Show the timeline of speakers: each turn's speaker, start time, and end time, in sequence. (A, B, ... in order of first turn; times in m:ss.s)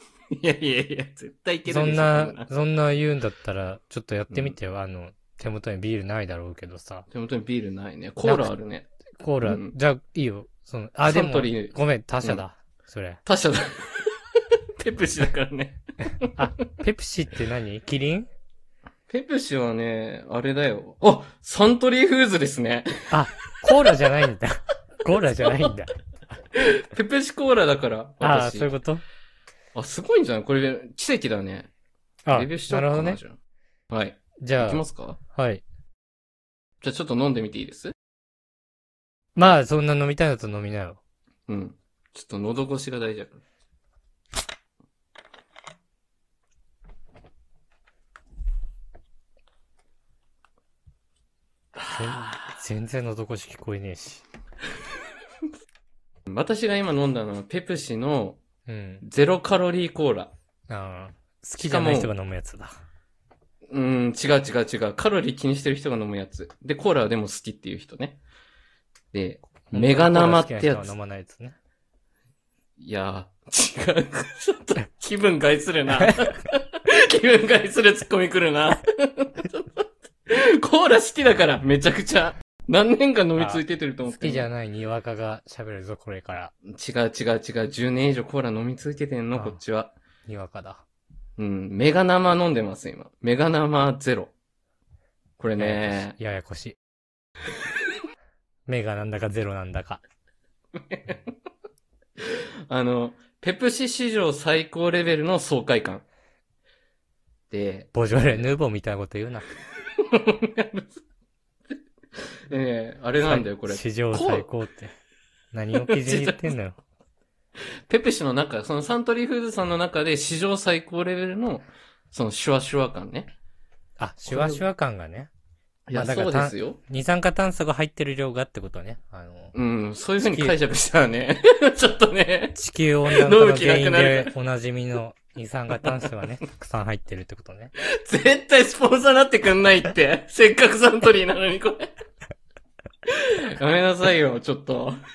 0:00.3-0:02.5 A
0:01.6-0:07.1 B
0:07.1-0:08.9 A
0:08.2-0:08.5 B
0:09.2-0:13.2 B
0:09.4-0:09.7 A
0:11.0-0:12.4 A
0:13.2-0:16.7 A
0:16.4-0:18.3 B
0:19.1-0:23.9 A
0:23.1-0:24.5 B
0:25.0-0:25.9 B
0:26.5-0:28.7 A
0:28.2-0:29.0 B
0:29.7-0:31.7 A
0:32.2-0:33.2 B
0:32.3-0:33.4 A
0:33.9-0:35.2 A
0:34.4-0:35.6 B
0:36.8-0:37.9 A
0:39.4-0:41.0 B
0:41.5-0:43.4 A
0:51.8-0:52.5 A
0:51.9-0:54.2 B
0:56.3-0:58.4 A
0:58.6-0:59.0 B
0:59.0-1:00.3 A
1:00.7-1:02.8 B
1:01.6-1:02.1 A
1:03.7-1:08.2 A
1:09.1-1:10.9 A
1:09.7-1:11.6 B
1:12.8-1:24.5 A
1:23.4-1:26.5 B
1:26.6-1:29.9 A
1:29.3-1:29.6 B
1:30.3-1:30.8 B
1:31.4-1:34.3 A
1:35.4-1:36.2 A
1:35.6-1:36.8 B
1:38.7-1:40.0 B
1:40.8-1:41.3 A
1:42.2-1:46.0 A
1:47.5-1:48.4 A
1:47.9-1:49.5 B
1:49.8-1:50.9 A
1:52.2-1:54.5 A
1:53.2-1:54.9 B
1:55.5-1:56.8 B
1:55.8-1:56.5 A
1:57.9-2:03.3 A
2:04.0-2:05.3 B
2:04.2-2:04.6 A
2:05.9-2:06.8 A
2:05.9-2:09.5 B
2:09.5-2:14.3 A
2:10.2-2:10.6 B
2:12.6-2:17.7 B
2:15.7-2:16.2 A
2:17.8-2:21.9 A
2:23.1-2:25.0 A